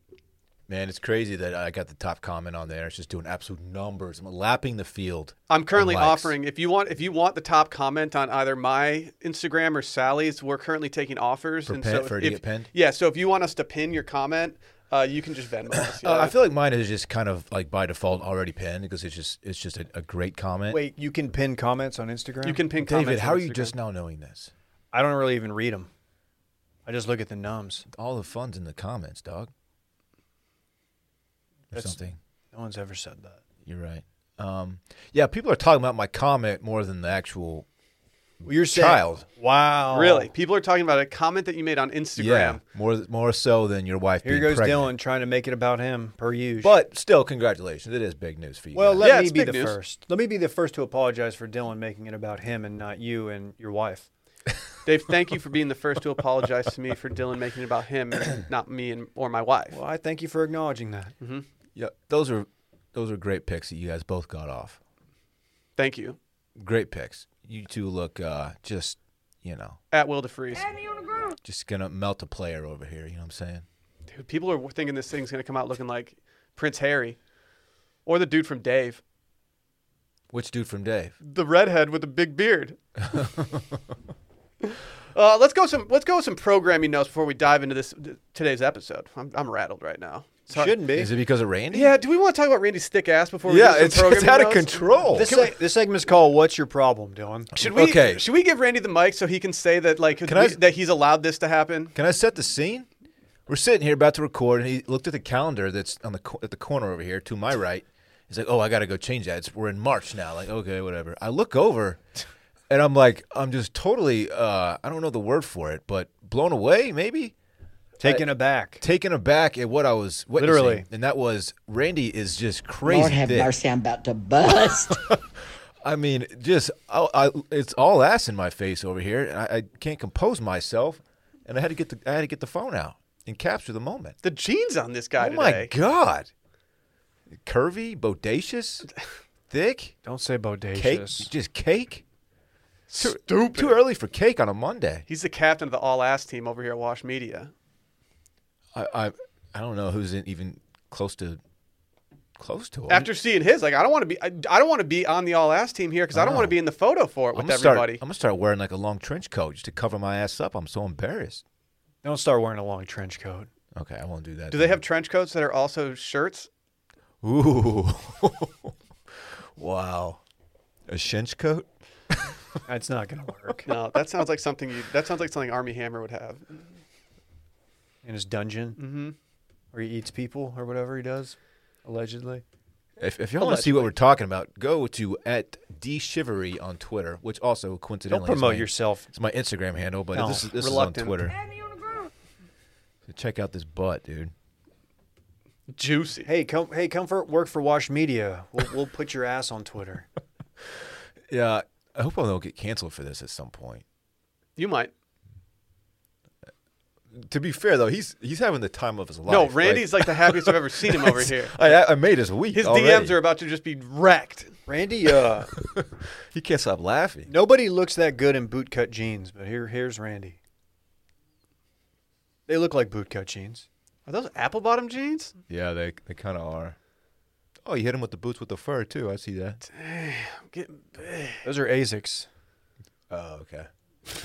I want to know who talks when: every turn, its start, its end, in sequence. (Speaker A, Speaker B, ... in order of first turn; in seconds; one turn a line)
Speaker A: 0.7-6.3
Speaker B: 5.5-16.3
Speaker A: 11.7-12.7
Speaker A: 15.8-20.8
Speaker C: 20.7-22.6
Speaker B: 22.4-23.7
Speaker A: 22.8-24.5
Speaker C: 24.9-25.9
Speaker C: 26.9-27.9
Speaker A: 27.9-29.5
Speaker C: 31.7-32.0
Speaker A: 31.7-32.2
Speaker C: 32.5-33.4
Speaker A: 33.6-37.7
Speaker A: 38.4-39.2
Speaker C: 38.4-40.3
Speaker B: 39.9-42.6
Speaker A: 42.2-44.9
Speaker C: 44.2-46.8
Speaker A: 46.6-49.1
Speaker C: 48.7-54.1
Speaker B: 49.0-49.8
Speaker B: 54.8-59.8
Speaker C: 59.7-61.1
Speaker B: 61.2-61.5
Speaker A: 61.7-64.8
Speaker B: 65.8-66.2
Speaker A: 66.6-69.8
Speaker B: 69.9-70.7
Speaker A: 71.4-73.6
Speaker B: 74.1-77.2
Speaker B: 78.0-79.0
Speaker A: 80.3-81.1
Speaker B: 81.2-82.8
Speaker A: 83.0-83.8
Speaker B: 84.6-90.8
Speaker C: 90.5-91.1
Speaker A: 90.9-91.9
Speaker B: 91.7-95.5
Speaker A: 93.4-95.3
Speaker C: 95.1-97.5
Speaker A: 97.5-98.2
Speaker B: 97.6-101.9
Speaker A: 100.2-100.6
Speaker A: 101.9-102.9
Speaker A: 103.5-112.0
Speaker A: 112.7-117.3
Speaker C: 118.0-118.8
Speaker A: 118.8-123.5
Speaker C: 120.4-120.8
Speaker D: 122.8-125.0
Speaker A: 124.9-125.2
Speaker A: 125.8-134.2
Speaker B: 134.2-135.7
Speaker A: 135.2-136.3
Speaker A: 137.3-138.9
Speaker A: 139.5-139.9
Speaker C: 140.0-141.3
Speaker A: 140.7-142.0
Speaker B: 142.9-143.8
Speaker A: 143.0-145.1
Speaker B: 145.1-147.5
Speaker A: 148.7-151.4
Speaker A: 152.4-153.1
Speaker B: 152.9-158.0
Speaker A: 156.1-156.6
Speaker A: 157.3-161.4
Speaker C: 162.0-163.5
Speaker A: 163.7-164.8
Speaker B: 164.5-166.5
Speaker A: 167.2-170.2
Speaker A: 170.9-172.4
Speaker C: 172.7-173.7
Speaker B: 173.7-176.6
Speaker C: 178.0-178.8
Speaker B: 178.8-179.1
Speaker C: 179.7-182.4
Speaker A: 183.0-191.3
Speaker B: 183.4-183.9
Speaker C: 188.1-189.1
Speaker C: 190.1-190.5
Speaker B: 190.5-191.3
Speaker A: 193.1-194.3
Speaker B: 195.7-196.3
Speaker C: 196.2-200.1
Speaker A: 201.3-203.8
Speaker B: 204.6-204.9
Speaker A: 207.1-213.2
Speaker B: 209.2-211.7
Speaker B: 212.5-214.5
Speaker C: 214.7-215.5
Speaker A: 215.6-217.3
Speaker C: 217.3-220.4
Speaker C: 222.5-223.7
Speaker B: 224.1-225.3
Speaker A: 225.5-226.8
Speaker A: 227.6-229.6
Speaker B: 229.6-231.4
Speaker C: 231.4-232.3
Speaker A: 233.1-233.7